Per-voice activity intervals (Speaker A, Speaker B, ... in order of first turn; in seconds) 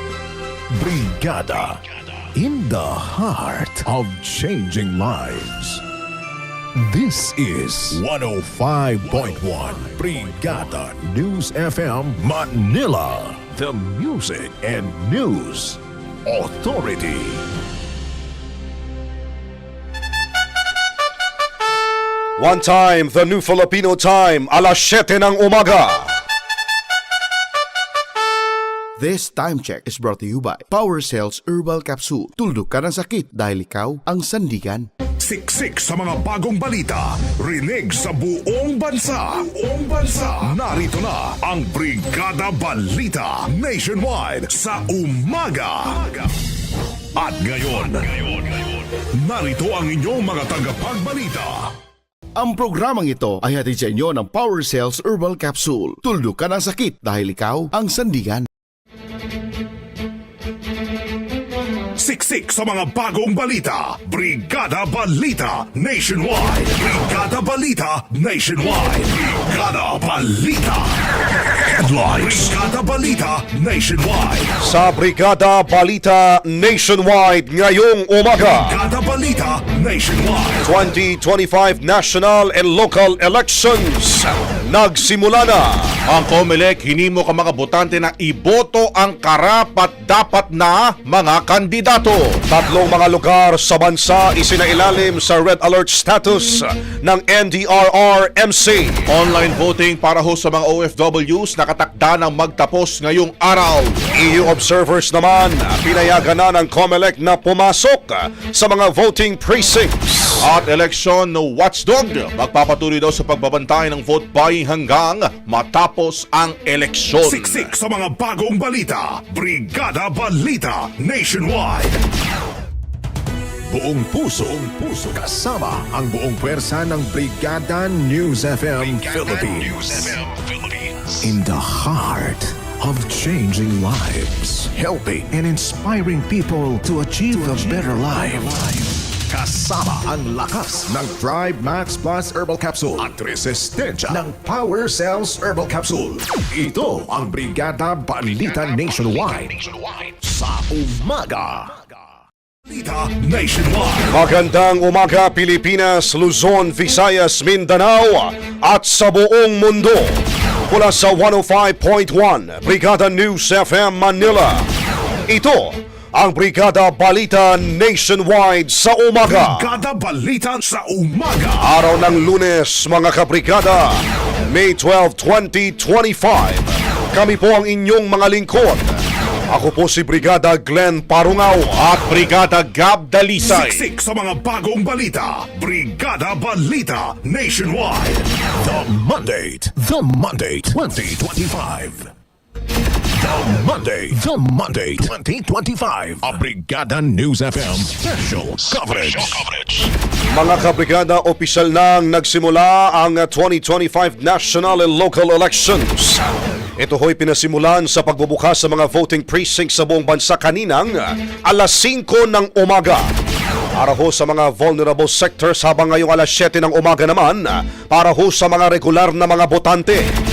Speaker A: 0.7-1.8, 2.3-5.8, 6.8-17.4, 123.7-151.9, 188.6-192.1, 193.1-199.6
Speaker B: 22.4-26.1, 74.6-78.7, 80.6-85.8, 92.5-99.1, 104.2-110.4, 154.1-160.2, 160.7-164.7, 165.3-169.7, 171.6-178.9, 179.5-181.8, 200.3-213.0, 213.8-220.1
Speaker C: 29.0-34.9, 52.4-58.5
Speaker D: 35.2-46.1, 47.1-48.6, 49.2-51.7, 62.0-74.6, 78.4-80.7, 117.2-122.0, 152.7-154.1, 169.2-171.6, 183.4-188.2
Speaker E: 86.1-92.4, 99.1-104.1, 110.4-117.7, 181.8-183.8